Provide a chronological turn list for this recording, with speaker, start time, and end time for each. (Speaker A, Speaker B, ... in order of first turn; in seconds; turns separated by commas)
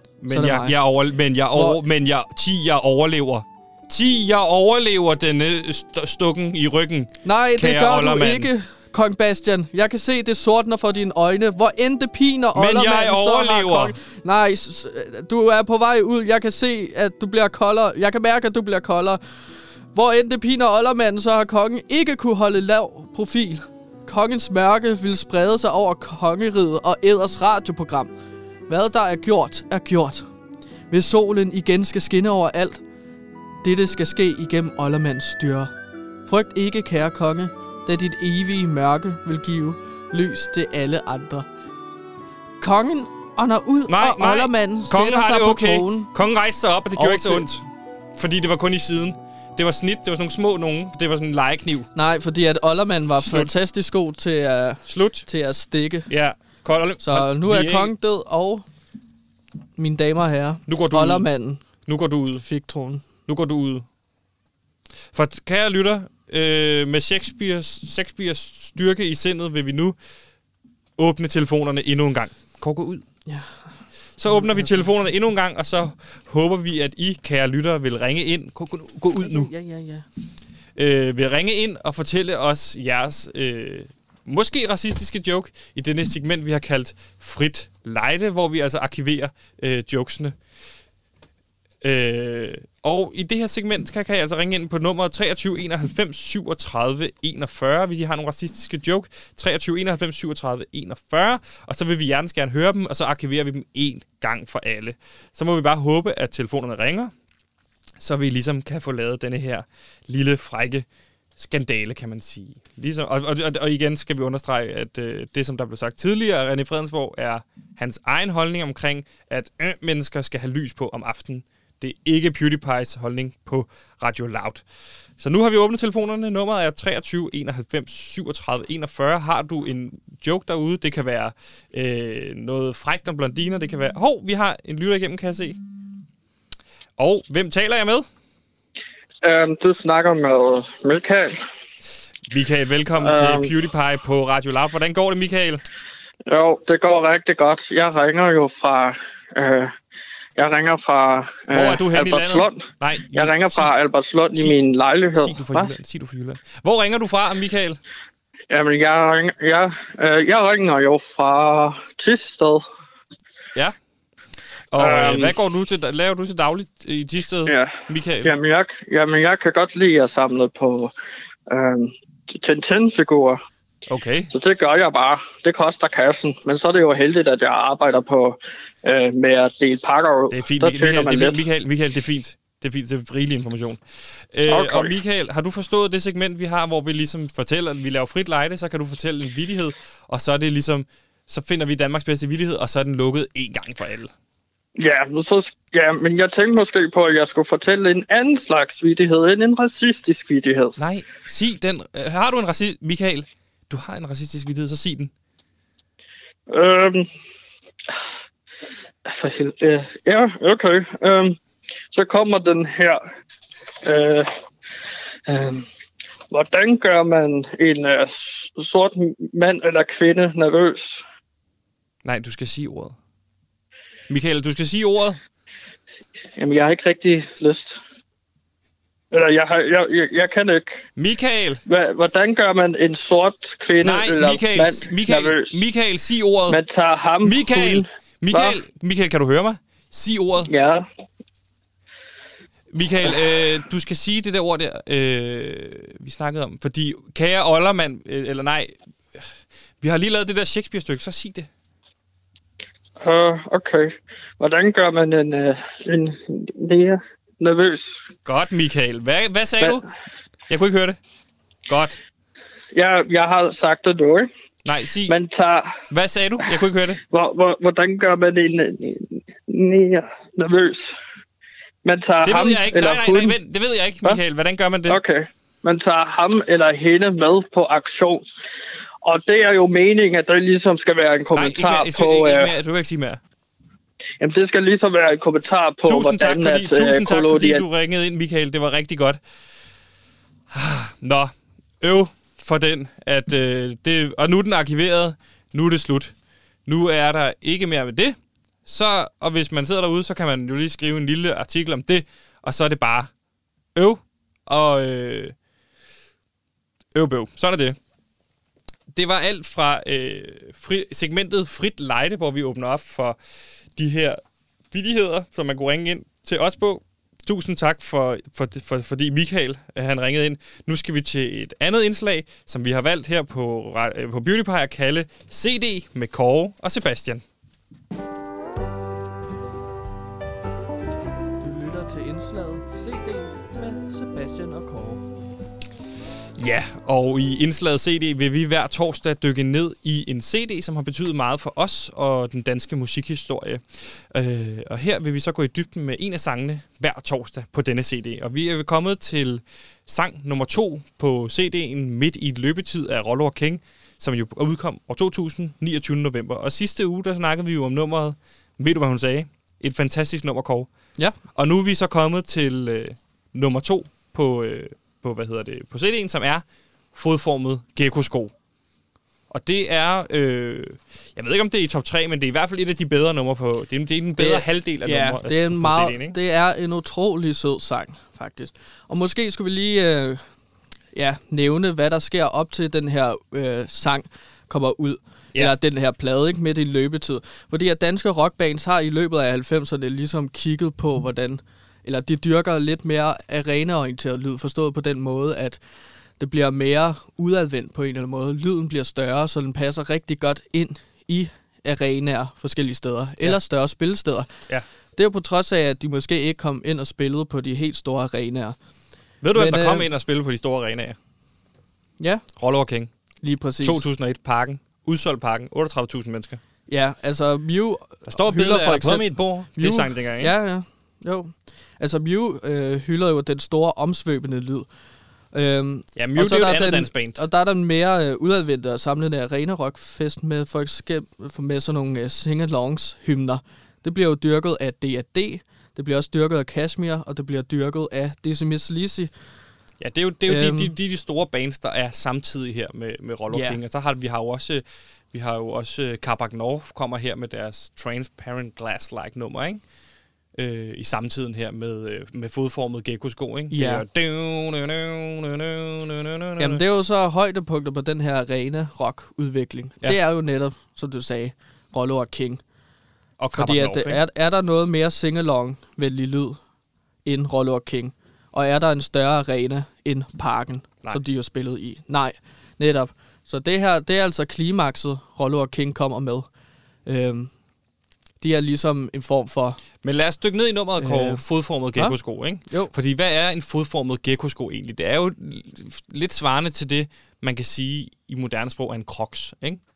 Speaker A: 0.2-8.5, Speaker B: 0.3-0.8, Speaker B: 1.5-1.8, Speaker B: 7.2-28.1, Speaker A: 12.6-14.0, Speaker B: 28.7-30.2, Speaker B: 30.9-32.8, Speaker B: 33.6-35.7, Speaker B: 36.3-41.5, Speaker B: 42.6-46.1, Speaker A: 43.9-51.9, Speaker B: 47.0-47.5, Speaker B: 52.0-56.1, Speaker A: 53.2-53.5, Speaker A: 54.9-55.3, Speaker A: 56.1-57.9, Speaker B: 57.0-58.6, Speaker B: 59.8-61.6, Speaker A: 60.7-61.3, Speaker A: 61.8-62.5, Speaker B: 62.4-63.0, Speaker A: 63.3-63.9, Speaker A: 65.1-70.0, Speaker A: 71.0-73.0, Speaker B: 73.3-73.8, Speaker A: 74.2-79.5, Speaker B: 74.3-74.9, Speaker B: 79.2-80.0, Speaker A: 80.8-90.4, Speaker A: 91.8-107.1, Speaker A: 108.0-110.8, Speaker A: 111.4-124.6, Speaker A: 125.2-135.6, Speaker A: 137.0-138.1, Speaker C: 139.2-141.4, Speaker A: 142.3-145.6, Speaker C: 143.0-143.5, Speaker C: 146.3-149.7, Speaker C: 150.4-155.8, Speaker A: 151.5-153.7, Speaker A: 155.1-157.8, Speaker C: 158.5-162.7, Speaker A: 164.7-168.3, Speaker C: 164.8-165.3, Speaker C: 167.5-170.9, Speaker C: 171.5-173.4, Speaker A: 173.9-174.3, Speaker C: 174.3-181.4, Speaker A: 180.3-183.8, Speaker A: 184.3-194.1, Speaker C: 184.5-185.0, Speaker C: 194.8-200.8, Speaker A: 200.8-205.1, Speaker C: 206.5-207.1, Speaker C: 209.1-211.4, Speaker C: 211.9-213.0, Speaker C: 213.8-214.3, Speaker C: 215.3-215.7, Speaker C: 216.3-221.0, Speaker A: 222.0-223.0, Speaker A: 224.1-225.2, Speaker C: 226.4-227.8, Speaker C: 229.1-230.8, Speaker A: 231.0-231.6, Speaker C: 231.7-235.6, Speaker A: 233.8-236.6, Speaker C: 236.5-238.6, Speaker A: 237.2-240.5, Speaker C: 240.5-240.9, Speaker A: 242.7-249.3, Speaker A: 249.8-251.5, Speaker C: 253.0-258.0, Speaker A: 258.2-259.8, Speaker A: 260.5-261.0, Speaker A: 261.7-262.0, Speaker C: 262.7-264.3, Speaker A: 264.6-265.2, Speaker C: 265.1-265.8, Speaker A: 265.9-267.0, Speaker C: 267.1-271.0, Speaker C: 271.8-273.4, Speaker A: 272.2-275.0, Speaker C: 274.9-278.2, Speaker C: 279.0-282.5, Speaker A: 281.3-283.2, Speaker C: 284.2-287.6, Speaker A: 285.9-289.2, Speaker A: 290.5-296.1, Speaker A: 296.7-303.1, Speaker A: 303.8-305.3, Speaker A: 306.9-307.8, Speaker A: 308.9-313.2, Speaker A: 313.8-314.2, Speaker A: 314.7-327.2, Speaker B: 331.4-335.1, Speaker A: 336.4-360.7, Speaker A: 361.3-368.3, Speaker A: 369.3-376.2, Speaker B: 374.2-380.3, Speaker B: 380.9-395.6, Speaker B: 396.2-404.3, Speaker B: 405.0-408.6, Speaker A: 409.2-411.0, Speaker B: 409.3-409.9, Speaker B: 412.0-412.2, Speaker A: 412.4-412.9, Speaker B: 413.2-413.8, Speaker A: 413.6-416.4, Speaker B: 416.7-424.7, Speaker A: 418.1-420.3, Speaker B: 425.3-439.1, Speaker A: 426.0-427.2, Speaker A: 439.8-449.6, Speaker B: 440.3-440.7, Speaker B: 443.3-443.6, Speaker A: 450.4-456.6, Speaker B: 453.5-453.8, Speaker B: 456.4-462.4, Speaker A: 463.2-464.0, Speaker B: 463.4-466.4, Speaker B: 467.1-476.3, Speaker B: 476.9-477.3, Speaker B: 478.2-479.6, Speaker A: 479.8-489.6, Speaker B: 480.8-481.2, Speaker B: 481.8-482.7